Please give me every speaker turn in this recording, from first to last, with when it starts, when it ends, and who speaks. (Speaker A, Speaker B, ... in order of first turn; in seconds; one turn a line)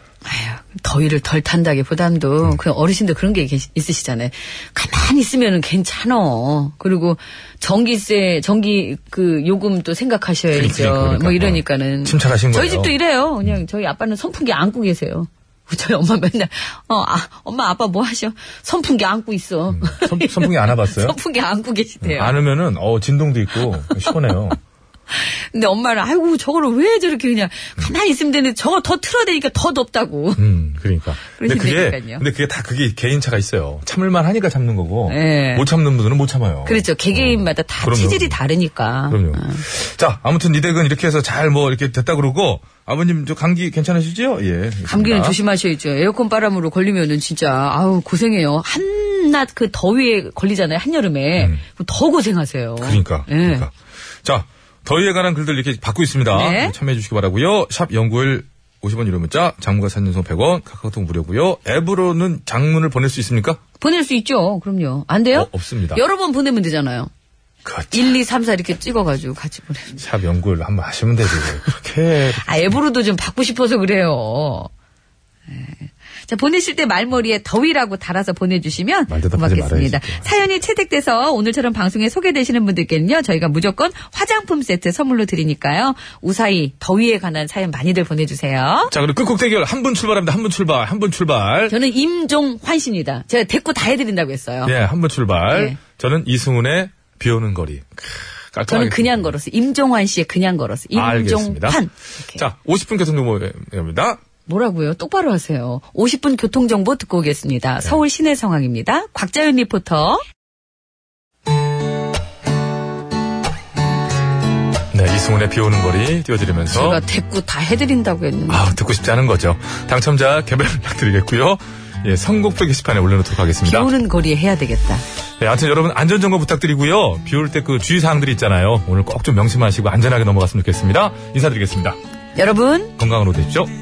Speaker A: 0.2-22.3
Speaker B: 10.5-12.9
Speaker B: 19.7-21.1
Speaker B: 22.0-24.6
Speaker A: 25.1-30.4
Speaker B: 30.4-38.4
Speaker A: 31.4-32.2
Speaker A: 35.1-35.6
Speaker A: 36.6-39.6
Speaker B: 39.1-45.4
Speaker A: 44.9-53.7
Speaker B: 52.8-53.7
Speaker B: 54.2-63.6
Speaker A: 56.3-56.8
Speaker A: 63.8-67.1
Speaker B: 65.3-66.0
Speaker B: 67.6-68.0
Speaker A: 67.9-70.0
Speaker B: 70.0-72.8
Speaker A: 72.4-74.7
Speaker A: 75.5-88.9
Speaker B: 79.1-80.3
Speaker B: 88.9-91.7
Speaker A: 91.7-94.7
Speaker B: 94.6-99.3
Speaker A: 95.5-95.8
Speaker A: 98.7-102.4
Speaker B: 100.9-101.8
Speaker B: 102.3-104.2
Speaker A: 104.5-110.2
Speaker B: 114.9-117.0
Speaker A: 116.7-118.7
Speaker B: 118.5-123.9
Speaker A: 123.6-125.0
Speaker B: 125.4-132.0
Speaker A: 132.3-132.9
Speaker B: 133.0-133.7